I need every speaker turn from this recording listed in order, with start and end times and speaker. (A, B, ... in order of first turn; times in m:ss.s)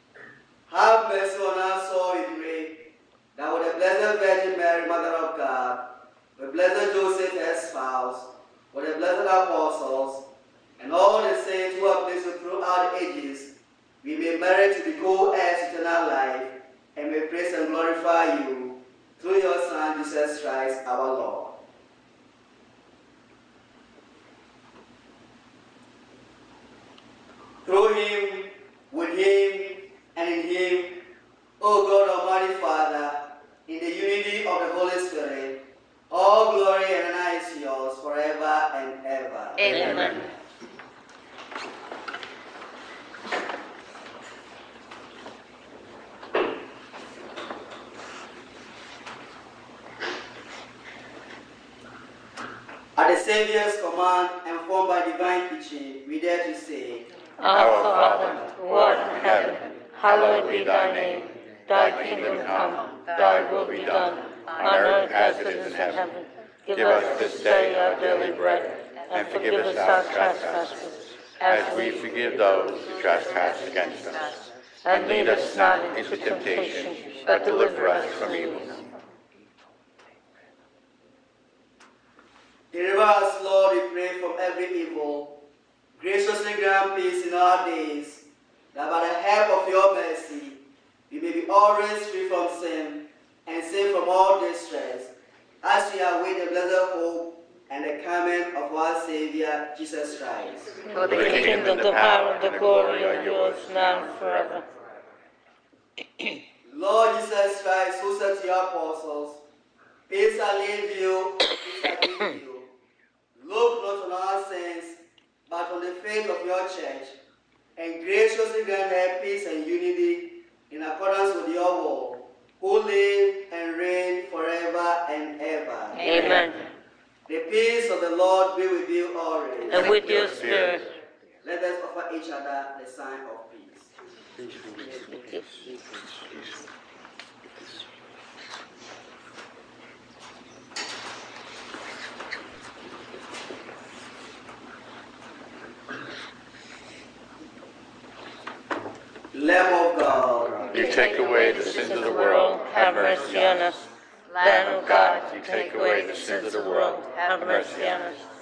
0:00.7-0:21.6 A
0:27.6-0:31.1 A
0:31.6-0:40.3 A
0:52.9-0:57.0 A
0:57.4-1:11.9 B
0:57.5-1:06.1 C
1:06.7-1:10.7 C
1:11.4-1:14.2 C
1:14.8-1:18.6 B
1:14.9-1:18.8 C
1:22.7-1:40.8 A
1:40.9-1:44.6 B
1:41.0-1:44.6 C
1:46.6-1:49.4 A
1:50.1-1:52.7 A
1:53.3-1:57.2 A
1:57.8-2:06.4 A
2:06.0-2:06.6 B
2:07.3-2:10.1 A
2:09.7-2:10.8 B
2:09.8-2:10.8 C
2:11.4-2:13.9 A
2:14.9-2:15.8 B
2:29.3-2:30.7 A
2:30.7-2:33.8 C
2:31.6-2:33.8 B
2:34.4-2:38.2 B
2:34.4-2:38.0 C